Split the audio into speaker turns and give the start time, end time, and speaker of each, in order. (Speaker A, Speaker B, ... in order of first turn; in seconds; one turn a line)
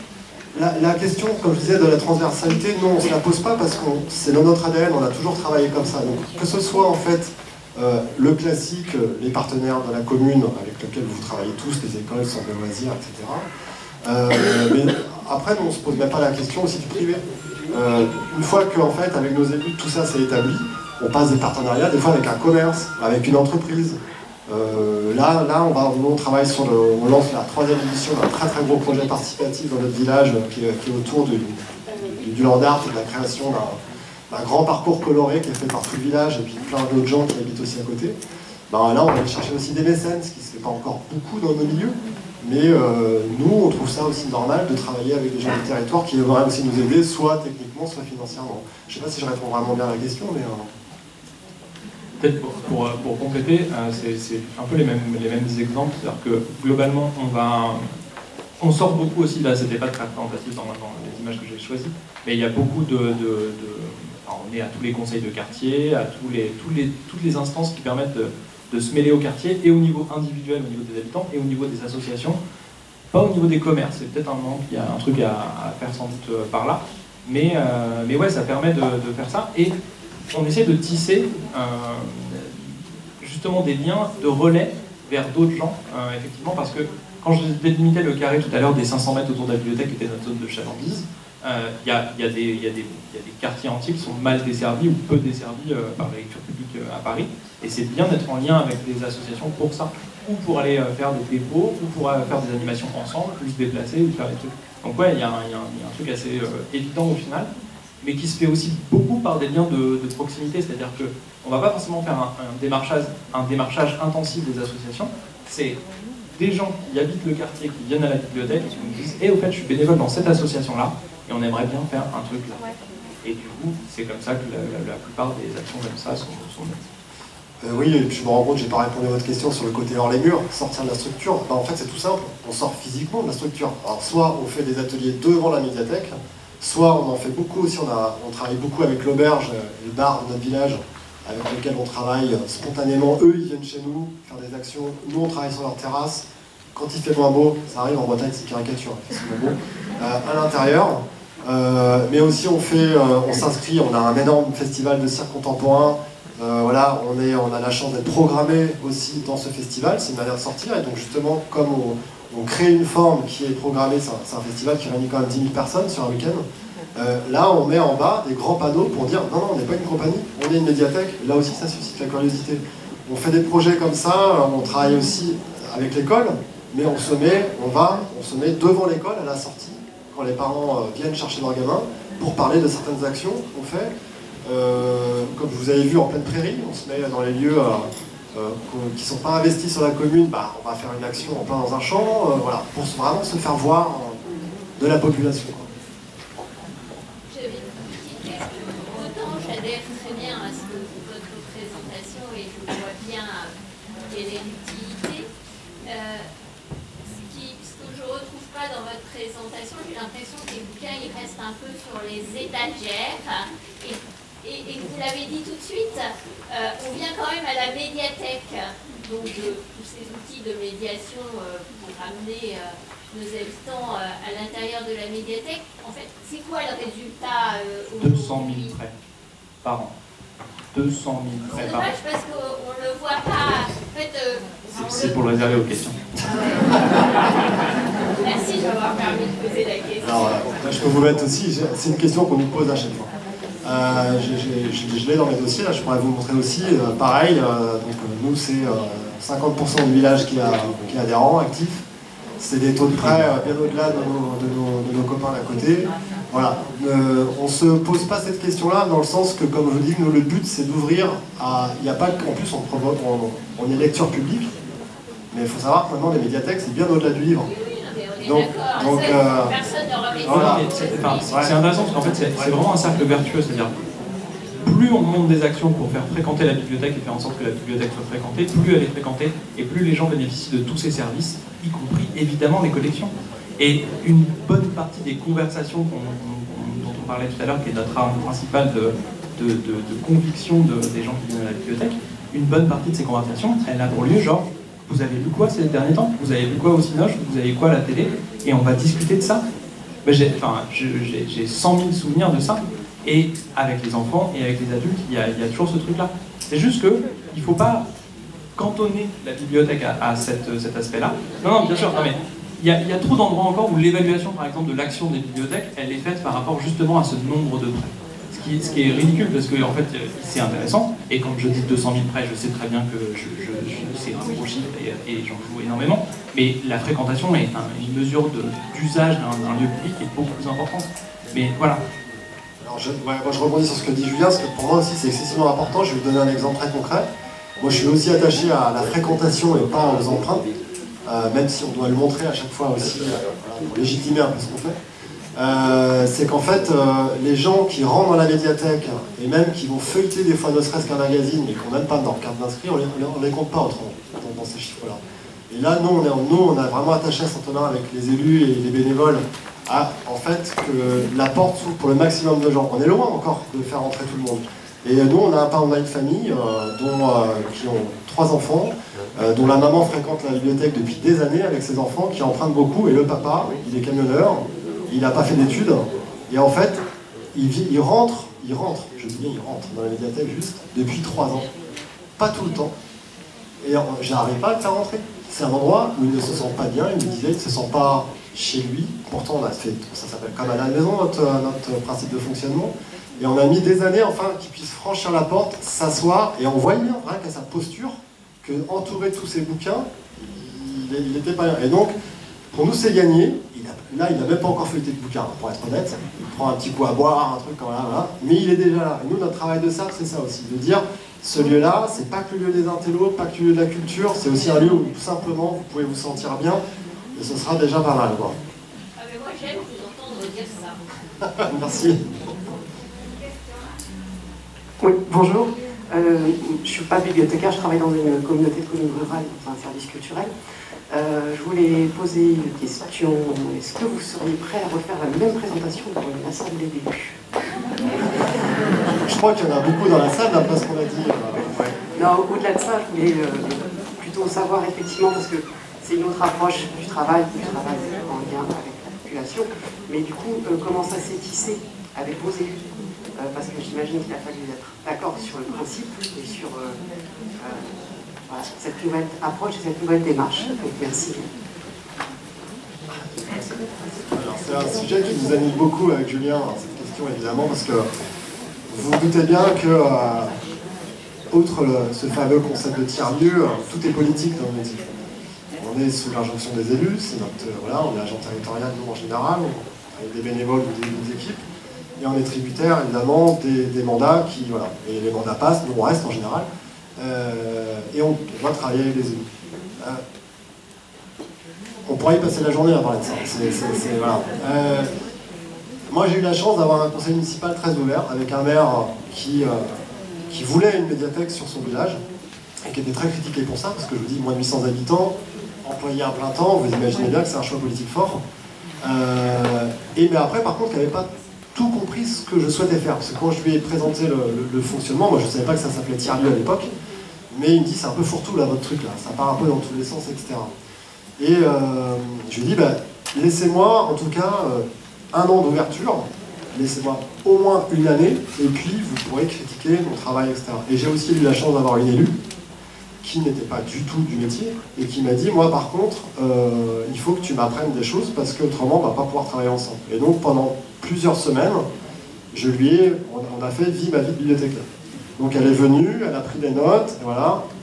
Speaker A: 0.5-13.5
Speaker A: 14.0-33.8
Speaker A: 34.3-38.1
Speaker A: 38.7-50.7
Speaker B: 52.2-57.9
Speaker B: 58.6-72.4
Speaker B: 73.1-79.7
Speaker B: 80.3-107.5
Speaker B: 108.0-115.8
Speaker B: 116.4-122.7
Speaker B: 123.2-126.8
Speaker A: 127.6-166.4
Speaker A: 166.9-183.9
Speaker A: 184.4-194.2
Speaker A: 194.8-195.7
Speaker C: 197.3-203.5
Speaker C: 204.1-205.3
Speaker C: 205.9-206.2
Speaker C: 207.1-228.8
Speaker B: 228.0-228.9
Speaker B: 229.6-229.9
Speaker B: 230.7-231.9
Speaker C: 231.5-235.2
Speaker B: 234.7-236.0
Speaker C: 238.2-240.8
Speaker A: 240.0-243.1
Speaker A: 243.6-251.8
Speaker A: 252.4-264.5
Speaker A: 265.3-267.5
Speaker C: 267.5-271.2
Speaker A: 268.2-269.5
Speaker A: 270.2-272.6
Speaker B: 270.2-273.7
Speaker B: 274.6-299.4
Speaker B: 300.1-307.8
Speaker B: 308.6-331.8
Speaker C: 311.8-312.1
Speaker A: 332.6-337.1
Speaker A: 337.6-340.4
Speaker A: 341.1-344.8
Speaker A: 345.4-355.0
Speaker A: 355.5-376.8
Speaker A: 377.3-381.5
Speaker A: 382.2-382.7
Speaker A: 383.6-401.9
Speaker A: 402.5-416.6
Speaker A: 417.1-418.4
Speaker C: 419.0-420.8
Speaker A: 421.4-422.0
Speaker D: 424.8-430.3
Speaker D: 430.9-437.2
Speaker A: 439.1-441.5
Speaker D: 441.5-452.6
Speaker D: 453.2-456.8
Speaker D: 457.4-457.8
Speaker D: 458.3-461.3
Speaker A: 463.0-463.6
Speaker A: 464.1-467.9
Speaker A: 468.7-470.3
Speaker A: 471.3-474.9
Speaker A: 475.6-481.4
Speaker A: 482.0-486.5
Speaker A: 487.0-489.2
Speaker A: 491.9-494.9
Speaker A: 495.9-499.7
Speaker A: 500.3-502.0
Speaker A: 502.6-508.2
Speaker A: 508.8-516.7
Speaker A: 517.3-520.5
Speaker A: 521.2-532.1
Speaker A: 533.0-541.7
Speaker A: 542.3-544.7
Speaker A: 545.2-547.4